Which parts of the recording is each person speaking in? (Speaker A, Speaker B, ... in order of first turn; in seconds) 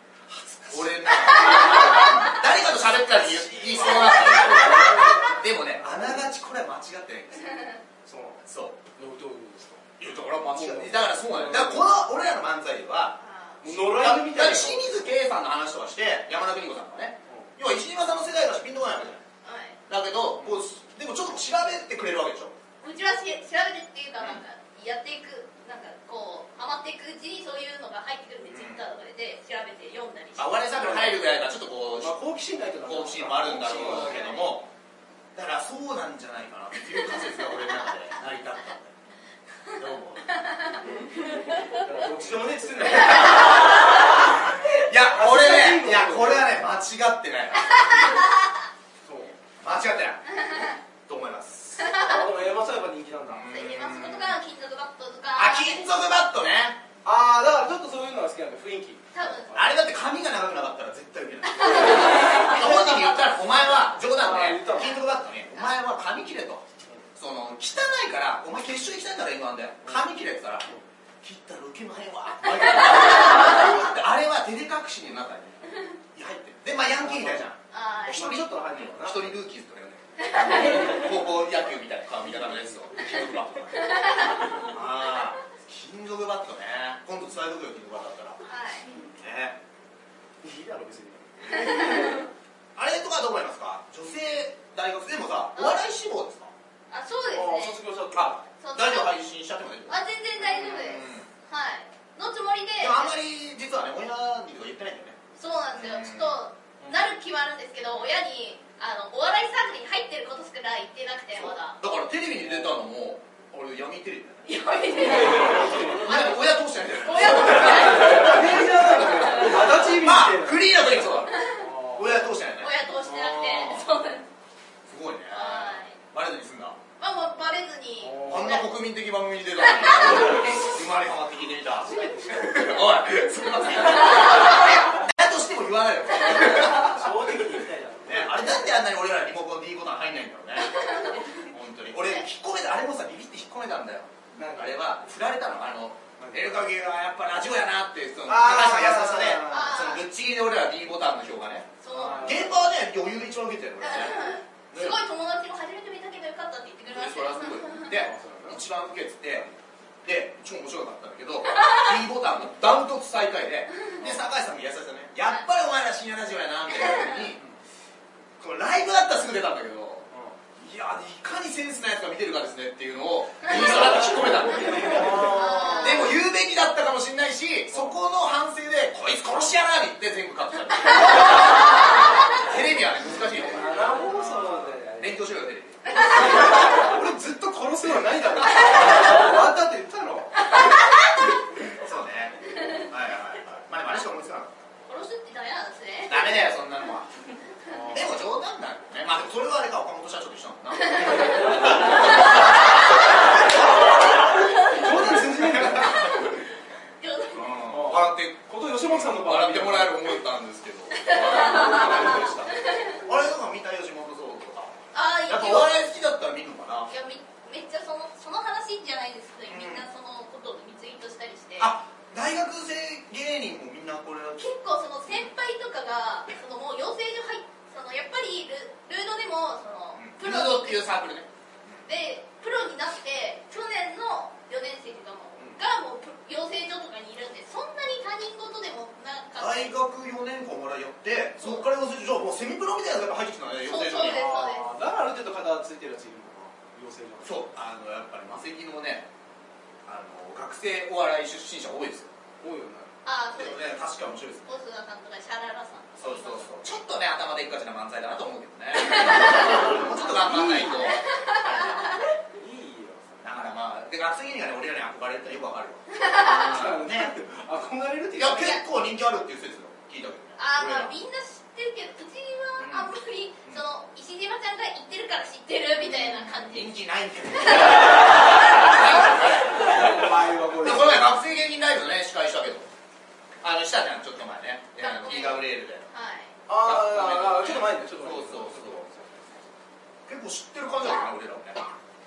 Speaker A: 0.3-1.1, 3.0-6.3, 8.0-8.4, 8.9-9.9, 10.5-11.8, 13.6-15.0, 30.7-31.2, 32.0-34.4, 41.7-44.0, 44.7-46.5, 49.0-49.3, 52.0-53.5, 57.0-59.6, 64.1-65.0, 77.0-77.5, 78.1-79.4, 80.5-81.0, 82.3-83.4, 90.4-92.2, 97.3-98.4, 115.0-116.1, 117.2-120.6, 121.5-122.3, 128.0-128.6, 131.8-132.6, 136.4-138.7, 144.3-144.8, 146.2-146.5, 148.3-149.8, 151.9-152.5, 157.9-158.6, 170.1-170.3, 173.6-176.1, 177.7-178.0, 183.3-185.2, 185.9-190.5, 197.7-198.1, 203.6-206.1, 207.7-210.1, 211.5-212.4, 243.9-247.4, 252.4-252.9, 262.3-263.2, 266.2-268.6, 279.5-281.2, 286.5-289.3
Speaker B: 0.7-7.5, 8.4-8.8, 10.0-19.2, 19.9-22.5, 28.5-28.8, 30.4-32.2, 32.8-34.7, 35.3-39.0, 39.8-40.3, 44.6-48.2, 49.6-50.2, 51.0-51.9, 53.3-54.4, 55.3-56.8, 59.5-66.6, 67.2-70.7, 71.2-84.0, 84.6-88.4, 89.2-89.6, 92.7-96.5, 98.1-101.3, 102.8-105.2, 105.7-106.3, 111.3-114.5, 115.2-121.4, 121.9-123.9, 124.9-126.8, 128.2-137.1, 138.0-155.0, 156.8-167.4, 168.4-186.7, 191.8-194.5, 196.1-197.1, 197.9-204.1, 205.5-206.4, 207.3-214.7, 215.3-216.9, 219.5-219.8, 221.6-224.4, 229.9-231.8, 239.4-244.2, 247.2-249.1, 249.8-252.1, 253.3-254.5, 256.0-262.0, 263.2-267.1, 268.1-270.9, 272.6-272.9, 275.8-282.7, 283.4-285.8, 286.6-288.9, 290.1-291.7
Speaker C: 1.4-2.2, 4.3-5.1, 13.2-13.6, 19.4-19.8, 22.8-30.6, 34.1-34.3, 40.3-40.8, 47.7-48.5, 50.3-50.8, 51.8-52.2, 53.5-55.9, 59.1-59.5, 61.5-63.0, 77.7-78.4, 80.2-81.0, 83.8-84.7, 88.4-88.9, 91.5-92.2, 95.5-95.8, 96.9-97.8, 98.6-99.1, 99.9-103.1, 105.3-111.8, 114.4-118.4, 121.3-121.6, 122.6-124.3, 125.3-126.0, 127.0-128.7, 129.6-130.5, 140.8-141.2, 149.5-150.0, 151.8-152.5, 153.8-157.9, 175.0-176.1, 181.0-181.2, 185.9-186.4, 190.5-191.3, 194.9-196.5, 204.4-204.9, 205.8-206.4, 207.0-207.6, 210.9-213.0, 214.9-215.7, 216.9-221.7, 224.4-230.9, 231.8-239.7, 241.4-241.6, 243.7-244.7, 253.0-253.7, 254.4-256.5, 258.8-262.1, 265.9-266.6, 270.4-276.8, 277.4-278.8, 284.8-286.3